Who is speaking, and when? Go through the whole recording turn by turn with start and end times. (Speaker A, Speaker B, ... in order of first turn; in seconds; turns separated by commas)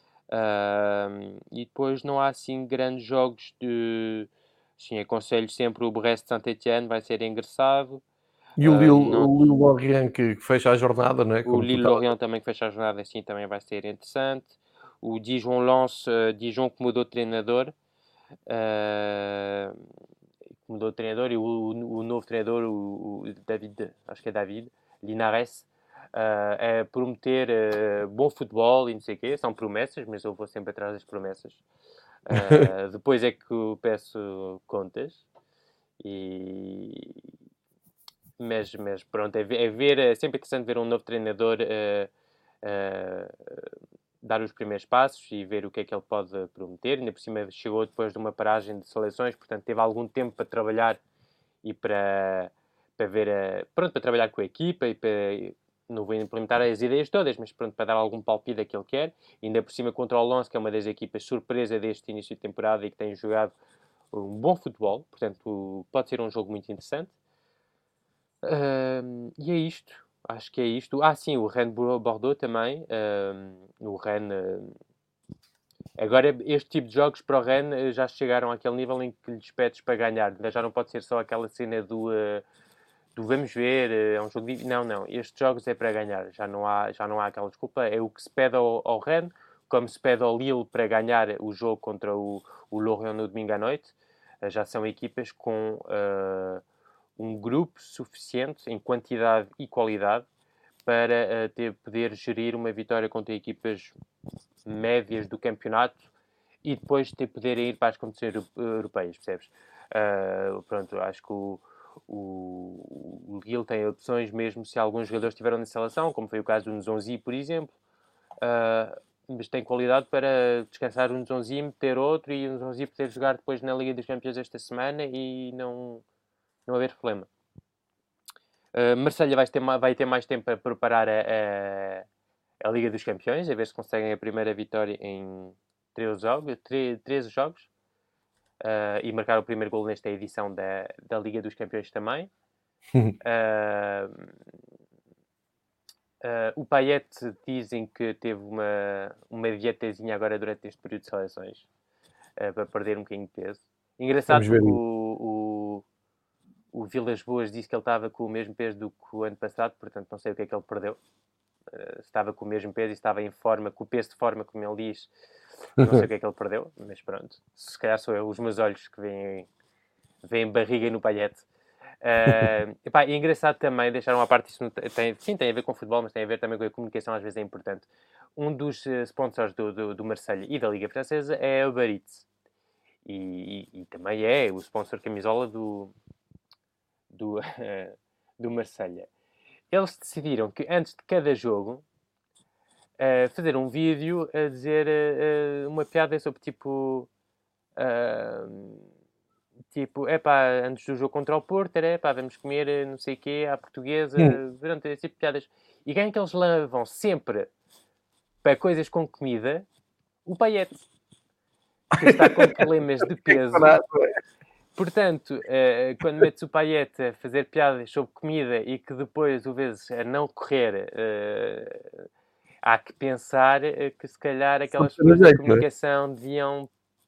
Speaker A: 0.3-8.0, Speaker B: 8.6-12.0, Speaker A: 8.6-9.3, Speaker A: 11.4-17.7, Speaker A: 18.5-19.8, Speaker A: 20.6-31.6, Speaker A: 32.3-35.2, Speaker B: 32.3-32.7, Speaker A: 36.0-37.2, Speaker A: 38.4-42.1, Speaker A: 42.6-43.7, Speaker A: 44.2-51.0, Speaker A: 51.6-63.5, Speaker A: 64.1-67.1, Speaker A: 68.4-74.8, Speaker A: 76.0-82.4, Speaker A: 83.1-96.6, Speaker A: 97.2-100.2, Speaker A: 100.8-103.9, Speaker A: 104.7-106.0, Speaker A: 106.6-117.7, Speaker A: 118.4-126.0, Speaker A: 126.7-127.3, Speaker A: 128.7-132.0, Speaker A: 132.6-137.7, Speaker A: 138.6-142.3, Speaker A: 143.2-144.2, Speaker A: 146.2-151.7, Speaker A: 152.4-155.8, Speaker B: 154.3-154.8, Speaker A: 156.7-161.0, Speaker A: 161.7-165.1, Speaker A: 165.8-169.5, Speaker B: 165.8-166.1, Speaker A: 170.2-171.4, Speaker A: 172.0-182.2, Speaker A: 183.0-185.9, Speaker A: 187.1-189.1, Speaker A: 189.7-191.8, Speaker A: 193.0-197.1, Speaker A: 197.8-198.8, Speaker A: 199.7-207.5, Speaker A: 208.4-209.7, Speaker A: 210.2-210.8, Speaker B: 211.9-214.1, Speaker A: 212.0-213.8, Speaker A: 214.8-221.8, Speaker A: 222.6-226.7, Speaker B: 224.7-225.6